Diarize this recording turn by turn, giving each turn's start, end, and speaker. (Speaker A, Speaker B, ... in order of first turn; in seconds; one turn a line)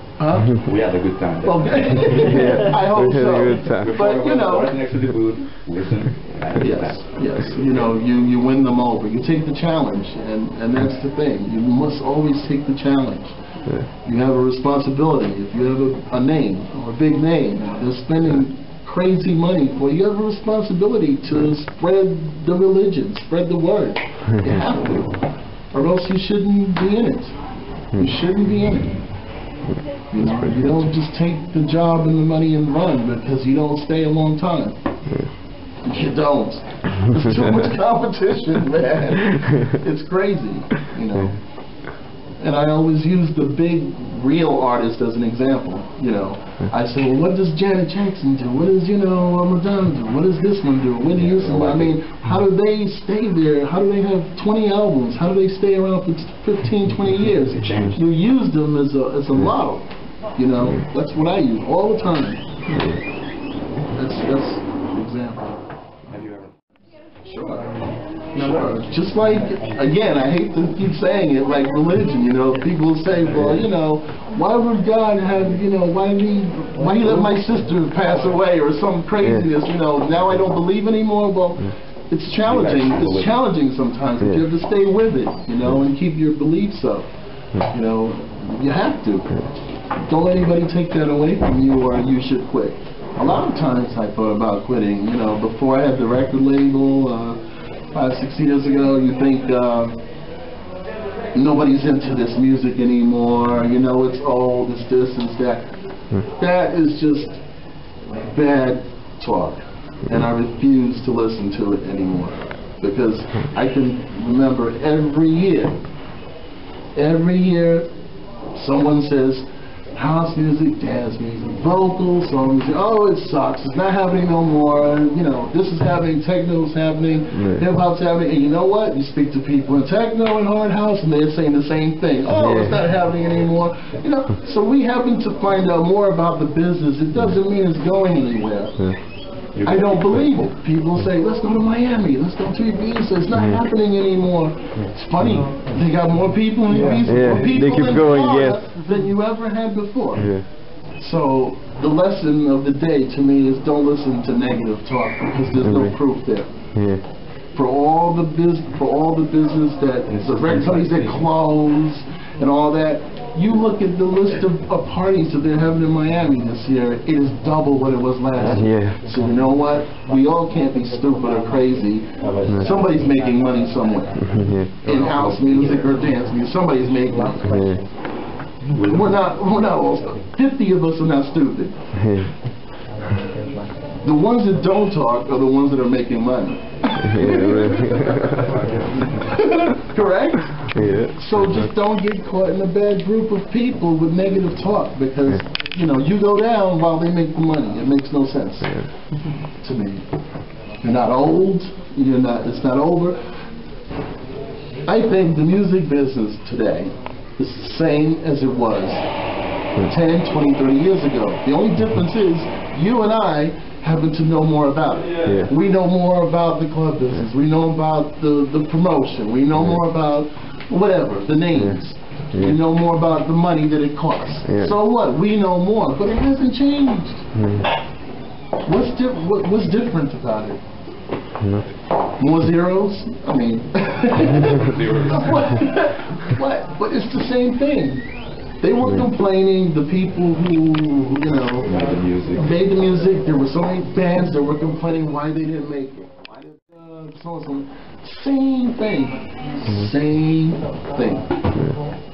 Speaker A: 0.2-0.5
Speaker B: 0.5-2.6
Speaker A: 1.4-4.8
Speaker C: 2.2-3.9
Speaker B: 3.6-7.8
Speaker A: 6.6-13.3
Speaker A: 14.0-25.2
Speaker A: 25.7-27.3
Speaker A: 28.0-29.0
Speaker A: 30.1-34.8
Speaker A: 35.8-41.4
Speaker A: 42.4-62.4
Speaker B: 51.1-51.9
Speaker B: 57.4-58.0
Speaker A: 64.0-65.7
Speaker B: 66.1-66.5
Speaker A: 67.2-67.7
Speaker A: 68.4-87.1
Speaker B: 82.5-83.4
Speaker A: 87.6-89.3
Speaker A: 90.0-97.4
Speaker A: 97.9-100.0
Speaker A: 101.3-105.7
Speaker A: 106.2-107.4
Speaker A: 108.1-115.8
Speaker A: 117.0-117.9
Speaker A: 118.5-138.9
Speaker B: 139.6-140.3
Speaker A: 139.6-150.3
Speaker C: 146.9-148.6
Speaker A: 151.0-156.5
Speaker C: 156.8-157.0
Speaker A: 157.5-174.2
Speaker B: 160.1-161.3
Speaker C: 168.7-168.9
Speaker B: 174.8-175.9
Speaker A: 174.8-177.7
Speaker B: 178.7-179.2
Speaker A: 178.8-181.8
Speaker A: 184.0-188.5
Speaker C: 187.1-188.5
Speaker B: 188.3-189.2
Speaker A: 189.2-198.8
Speaker C: 190.8-191.1
Speaker A: 199.6-200.0
Speaker A: 200.8-203.2
Speaker A: 204.9-209.1
Speaker A: 209.8-227.3
Speaker A: 228.6-230.6
Speaker A: 232.2-238.0
Speaker B: 234.4-235.5
Speaker A: 238.6-241.8
Speaker B: 241.6-242.5
Speaker A: 242.4-251.3